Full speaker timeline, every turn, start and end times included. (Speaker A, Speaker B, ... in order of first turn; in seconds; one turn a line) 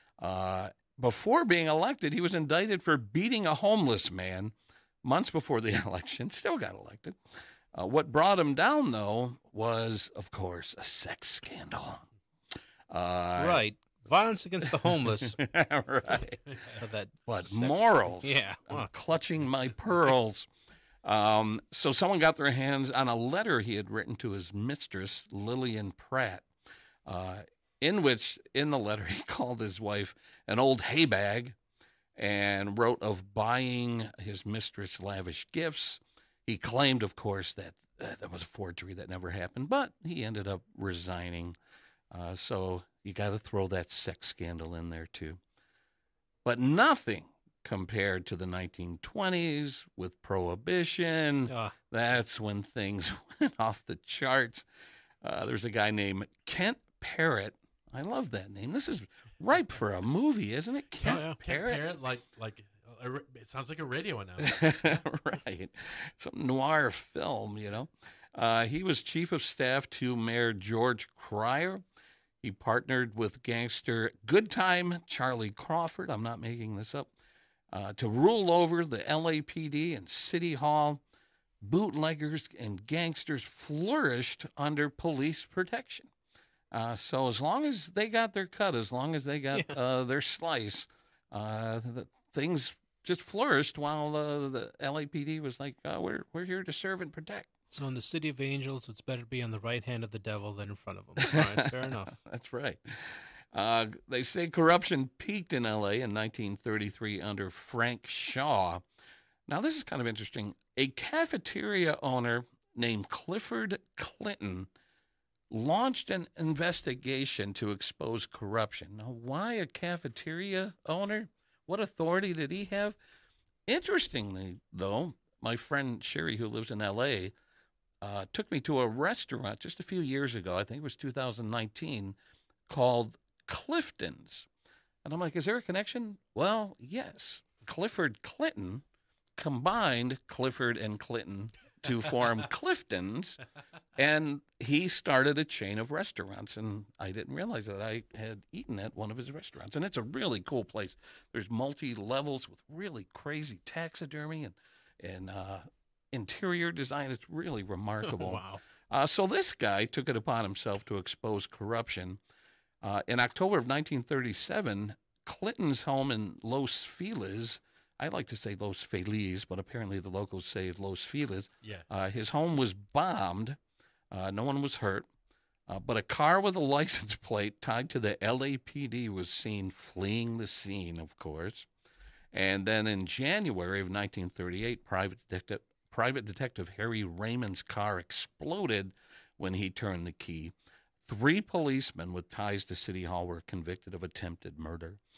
Speaker A: 0.2-7.2
Speaker A: 7.7-12.0
Speaker A: 12.9-13.6
Speaker B: 13.4-15.4
Speaker A: 15.2-16.5
Speaker B: 16.7-18.9
Speaker A: 17.3-20.5
Speaker A: 21.0-26.5
Speaker A: 27.1-31.6
Speaker A: 32.1-41.5
Speaker A: 42.1-45.4
Speaker A: 46.4-54.6
Speaker B: 51.5-51.7
Speaker A: 55.2-61.8
Speaker B: 61.0-61.4
Speaker C: 61.4-65.0
Speaker A: 64.4-71.8
Speaker A: 72.4-77.1
Speaker A: 77.7-81.0
Speaker A: 81.6-86.1
Speaker A: 86.7-97.5
Speaker B: 97.7-102.2
Speaker A: 101.2-108.8
Speaker A: 109.5-114.7
Speaker A: 115.5-123.0
Speaker A: 123.7-127.3
Speaker A: 128.0-132.2
Speaker A: 132.7-134.5
Speaker A: 135.0-138.8
Speaker A: 139.4-143.4
Speaker A: 143.9-162.2
Speaker B: 158.0-158.6
Speaker A: 162.8-173.6
Speaker A: 174.1-175.1
Speaker A: 175.7-181.7
Speaker A: 182.3-190.5
Speaker A: 191.0-195.0